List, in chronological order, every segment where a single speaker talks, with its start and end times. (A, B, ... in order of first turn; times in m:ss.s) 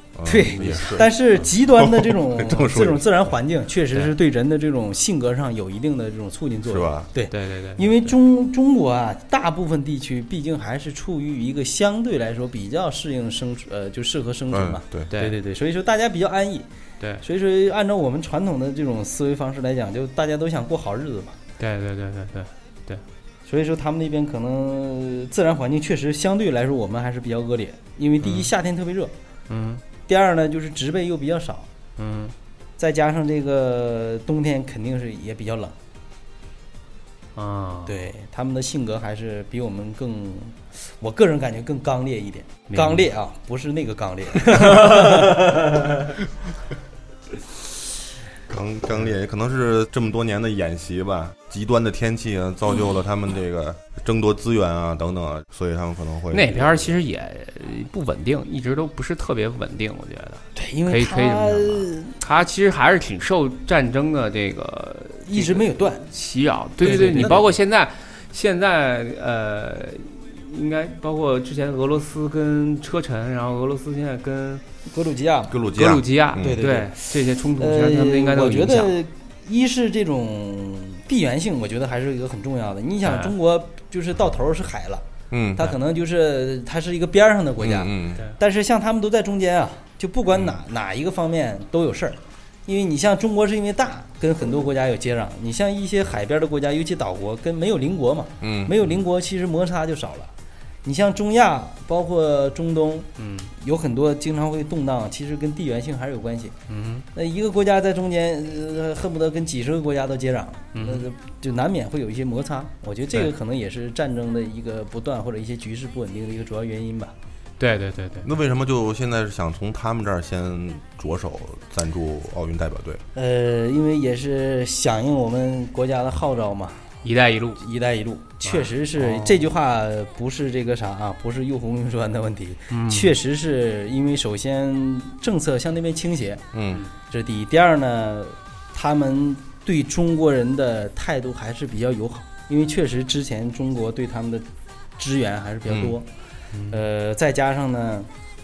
0:00.2-0:03.0 A
0:00.2-0:16.6 B
0:00.5-0:01.0 C
0:06.7-0:07.1 A
0:07.3-0:08.1 C
0:14.5-0:15.1 A
0:15.1-0:15.4 C
0:17.2-0:21.4 B
0:21.6-0:23.0 C
0:23.5-0:29.1 B
0:28.2-0:28.5 C
0:29.5-0:29.8 C
0:30.1-0:31.7 B
0:32.0-0:32.3 C
0:32.8-0:35.7 B
0:37.4-0:37.9 C
0:37.8-0:45.6 B
0:42.7-0:43.0 C
0:44.6-0:45.3 C
0:48.5-0:57.0 A
0:56.3-1:14.6 C
1:00.6-1:02.2 B
1:05.2-1:06.0 B
1:06.8-1:07.5 B
1:06.8-1:07.5 A
1:14.9-1:15.6 B
1:15.5-1:16.6 A
1:15.7-1:18.9 C
1:16.4-1:25.0 B
1:23.0-1:23.3 C
1:25.3-1:25.7 A
1:25.6-1:40.3 B
1:27.6-1:28.2 A
1:38.4-1:38.7 A
1:40.8-1:46.5 B
1:43.2-1:43.5 C
1:46.7-1:47.0 C
1:47.1-1:57.1 B
1:50.7-1:51.0 C
1:57.6-1:58.3 C
1:58.2-2:03.0 A
2:03.1-2:06.8 B
2:07.0-2:07.6 C
2:07.6-2:16.4 B
2:08.4-2:09.3 C
2:12.7-2:13.2 C
2:16.5-2:16.8 A
2:17.1-2:24.4 B
2:25.0-2:26.1 B
2:25.7-2:26.0 A
2:26.5-2:26.8 C
2:26.7-2:28.1 B